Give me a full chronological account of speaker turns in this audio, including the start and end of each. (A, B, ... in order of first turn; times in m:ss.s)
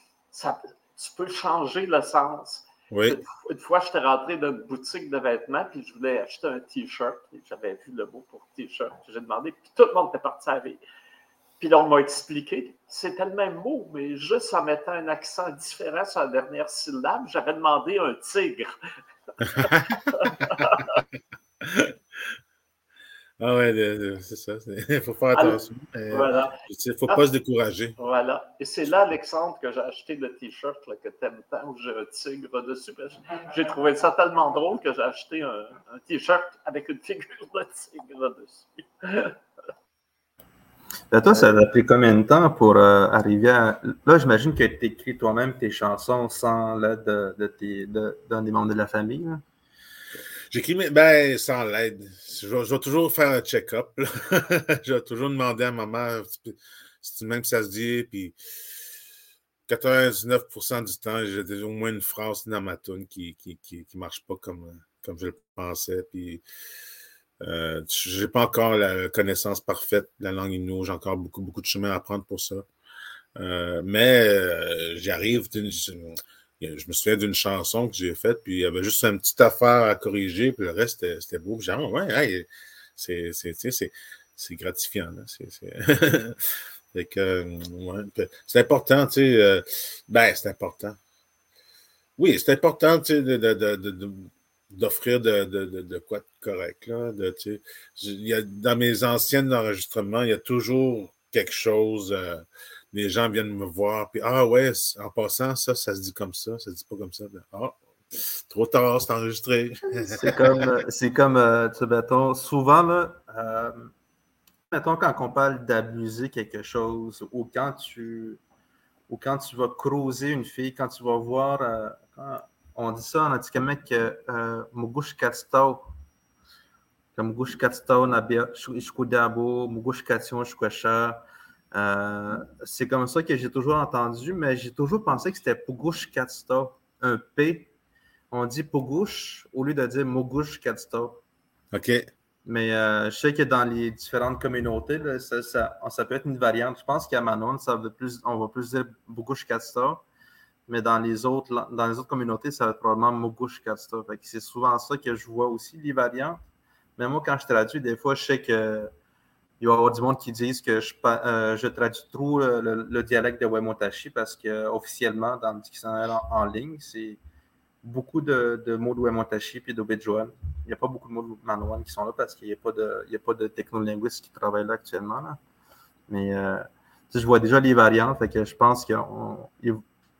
0:00.3-0:10.8 A
0:02.9-0:03.2 B
0:11.6-0:18.7 A
0:19.4-0:21.0 A
0:19.5-0:20.9 B
0:21.6-0:22.4 B
0:23.4-0:28.0 B
0:25.3-0:27.2 A
0:28.0-0:39.4 A
0:41.1-0:49.4 C
0:50.5-0:58.4 B
0:59.7-1:06.4 B
1:07.4-1:12.7 B
1:13.4-1:31.0 B
1:32.2-1:50.6 B
1:49.9-1:53.9 C
1:54.7-1:58.4 C
1:59.1-2:05.9 C
2:07.2-2:17.7 C
2:18.3-2:21.2 C
2:21.7-2:22.1 B
2:22.4-2:30.0 C
2:30.7-2:36.4 C
2:37.0-2:38.9 C
2:39.6-2:47.2 C
2:47.8-2:55.4 C
2:56.1-2:59.8 C